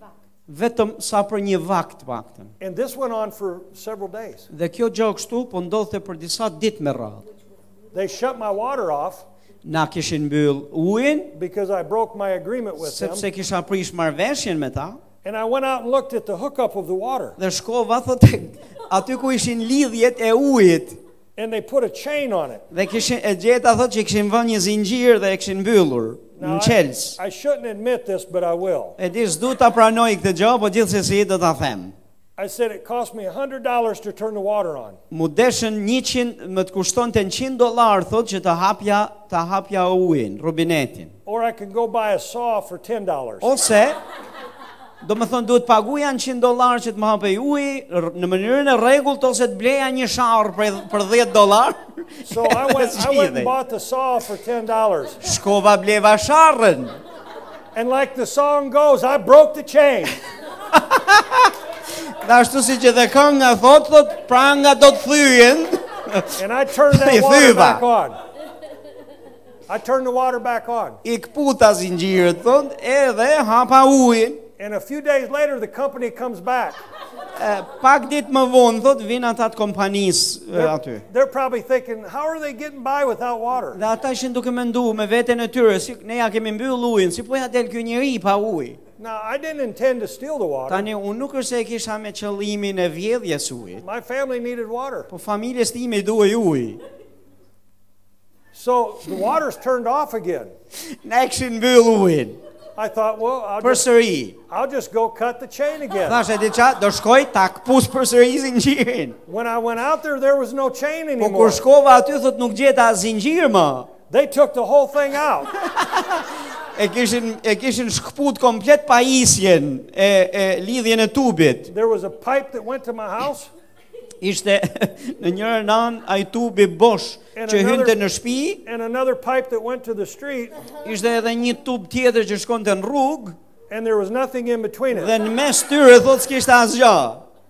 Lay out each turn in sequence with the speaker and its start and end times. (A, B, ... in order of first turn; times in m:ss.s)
0:00.5-0:02.5 A
0:02.6-0:04.5 B
0:04.5-0:07.2 A
0:07.9-0:09.2 B
0:09.6-0:11.3 A
0:11.3-0:13.2 B
0:12.8-0:15.0 A
0:15.2-0:17.4 B
0:17.4-0:21.0 A
0:21.4-0:22.6 B
0:22.7-0:27.2 A
0:26.4-0:29.0 B
0:29.0-0:31.9 A
0:32.4-0:35.0 B
0:35.1-0:41.1 A
0:41.2-0:43.5 B
0:43.4-0:44.0 A
0:45.0-0:53.5 A
0:52.2-0:55.2 B
0:55.2-0:57.0 A
0:57.7-1:00.2 B
1:00.7-1:01.5 A
1:02.0-1:07.8 A
1:06.4-1:08.2 B
1:09.7-1:11.0 B
1:11.0-1:14.4 A
1:14.6-1:16.8 B
1:17.4-1:21.0 A
1:20.5-1:23.8 B
1:23.7-1:28.8 A
1:29.0-1:30.9 B
1:30.7-1:33.8 A
1:33.8-1:35.1 B
1:35.1-1:36.8 A
1:38.5-1:40.5 B
1:40.8-1:42.4 A
1:42.8-1:43.8 B
1:43.6-1:44.4 A
1:44.5-1:46.2 B
1:46.0-1:49.2 A
1:49.3-1:51.6 B
1:51.2-1:53.9 A
1:54.1-1:55.5 B
1:55.6-2:01.7 A
2:01.7-2:03.5 B
2:04.2-2:08.6 A
2:07.3-2:08.0 B
2:08.6-2:10.6 B
2:10.8-2:13.4 A
2:13.7-2:15.1 B
2:14.9-2:17.2 A